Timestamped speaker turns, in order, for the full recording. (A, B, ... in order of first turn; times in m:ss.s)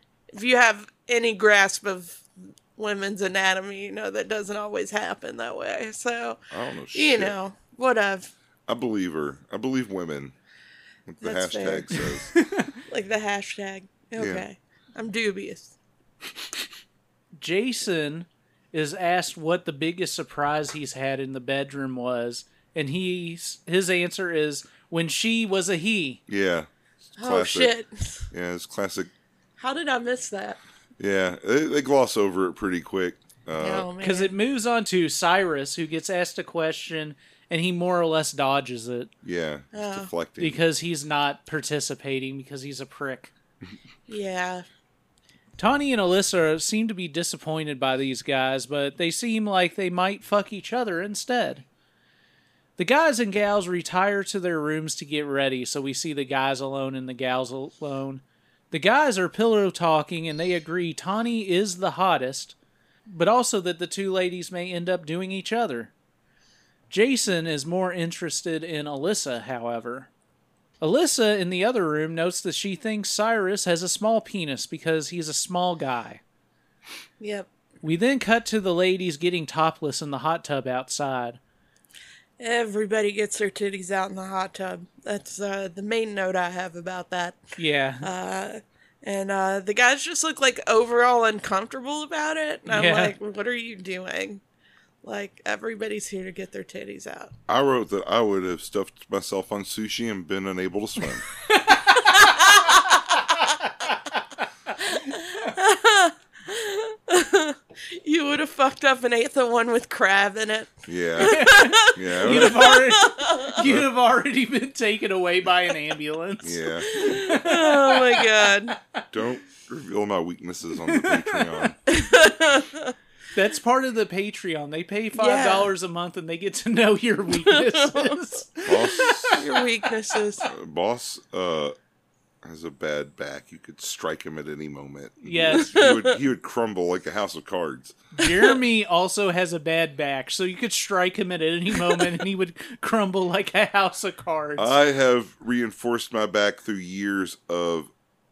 0:00.3-0:06.4 A
0:06.5-0:07.4 B
0:06.9-0:08.3 A
0:08.7-0:10.3 B
0:11.1-0:12.3 B
0:11.2-0:12.0 A
0:12.3-0:12.7 C
0:12.9-0:15.7 A
0:14.2-0:14.4 B
0:17.4-0:26.2 C
0:26.3-0:27.7 B
0:27.2-0:28.3 A
0:28.3-0:29.1 B
0:29.6-0:30.6 A
0:31.0-0:33.9 B
0:33.6-0:34.3 A
0:34.0-0:39.1 C
0:39.2-0:40.6 B
0:39.7-0:40.1 A
0:40.4-0:43.3 C
0:44.1-0:44.6 A
0:45.6-0:51.6 C
0:52.8-1:02.5 C
1:03.1-1:05.9 C
1:06.9-1:10.1 C
1:10.8-1:16.2 C
1:17.2-1:17.5 A
1:17.8-1:21.4 C
1:22.4-1:27.4 A
1:27.6-1:28.1 C
1:28.0-1:34.4 A
1:32.7-1:33.1 C
1:35.0-1:37.3 A
1:37.5-1:41.2 B
1:41.5-1:41.8 C
1:42.0-1:43.0 A
1:44.8-1:53.5 A
1:50.9-1:52.8 B
1:51.2-1:59.0 C
1:53.6-1:53.8 B
1:56.4-1:57.2 B
1:56.9-1:58.8 A
1:59.1-2:01.8 B
2:00.8-2:01.5 C
2:01.9-2:02.9 A
2:03.3-2:09.4 C
2:05.2-2:05.7 A
2:07.3-2:08.2 A
2:08.6-2:09.4 B
2:09.2-2:10.4 A
2:10.4-2:11.8 B
2:12.4-2:18.0 B
2:15.2-2:15.8 C
2:15.6-2:16.0 A
2:18.2-2:24.7 C
2:24.6-2:27.9 B